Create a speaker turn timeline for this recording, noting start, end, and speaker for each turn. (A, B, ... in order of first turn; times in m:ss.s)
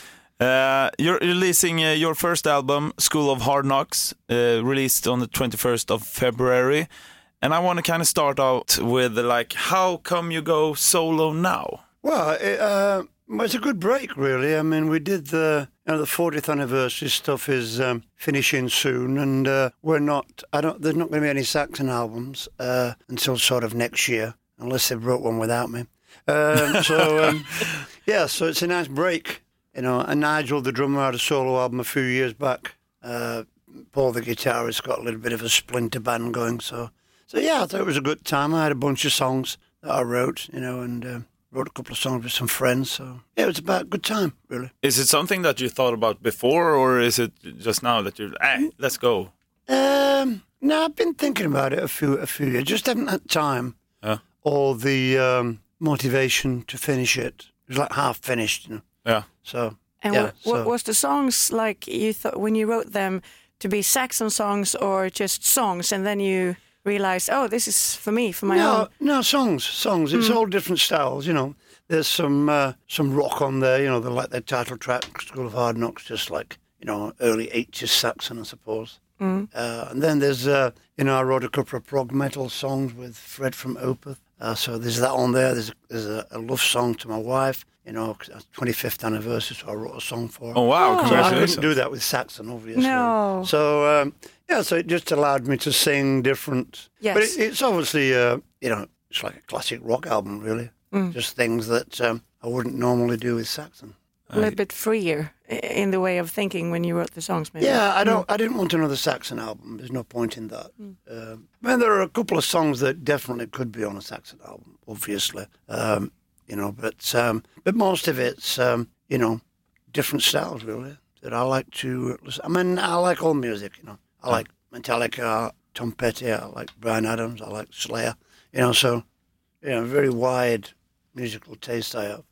0:00.4-0:06.9 A
0:07.4-0:11.8 A
0:12.0-0:44.7 B
0:44.8-0:49.3 A
0:49.7-0:53.8 B
0:54.4-0:58.8 B
0:59.4-1:00.7 B
1:00.0-1:08.9 C
1:08.5-1:19.0 B
1:19.2-1:19.5 C
1:19.5-1:43.9 B
1:30.5-1:31.7 A
1:30.8-1:31.5 C
1:32.7-1:33.5 C
1:37.0-1:37.4 C
1:44.3-1:48.2 C
1:47.6-2:09.0 B
2:09.6-2:12.2 B